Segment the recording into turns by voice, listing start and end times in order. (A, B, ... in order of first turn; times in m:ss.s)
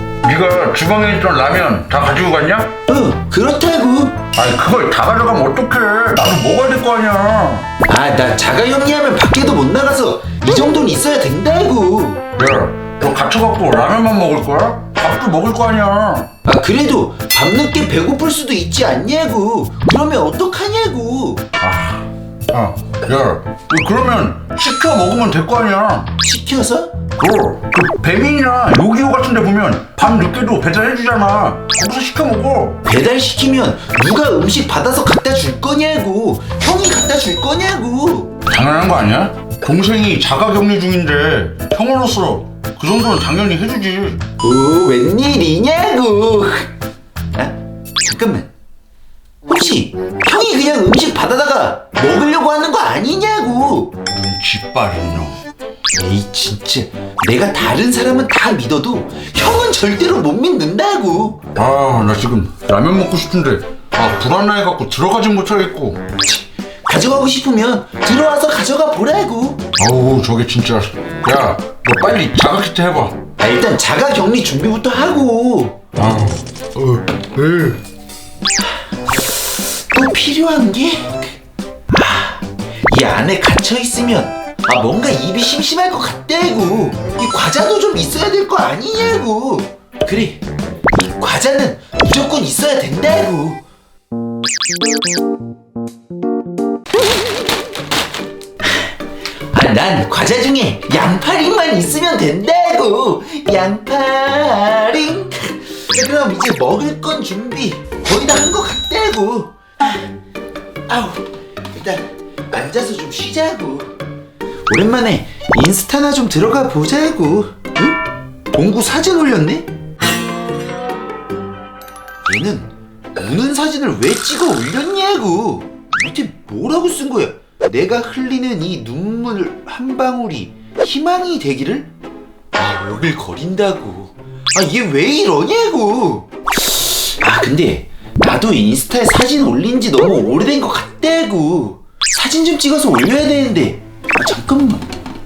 0:00.2-0:02.8 A
0:02.9-0:04.2 B
0:04.3-0:07.7 A
0:07.9-0:12.2 B
0:12.4-0:16.3 A
0:16.4-0:21.4 B
0:21.6-0:26.1 A
0:26.2-0:27.0 B
0:27.2-0:32.8 A
0:32.8-0:38.3 B
0:38.5-0:44.2 A
0:44.4-0:46.7 B
0:47.3-0:48.5 B
0:49.4-0:54.0 B
0:54.1-0:55.4 A
0:56.0-1:01.4 B
1:01.5-1:06.0 A
1:06.2-1:09.6 B
1:09.8-1:13.2 A
1:13.4-1:15.8 B
1:16.0-1:17.8 A
1:19.2-1:21.4 B
1:21.9-1:30.4 B
1:30.9-1:33.6 B
1:39.5-1:50.0 B
1:50.9-1:53.9 B
1:54.7-1:58.0 B
1:58.5-1:59.7 B
2:02.2-2:11.9 B
2:12.5-2:24.8 B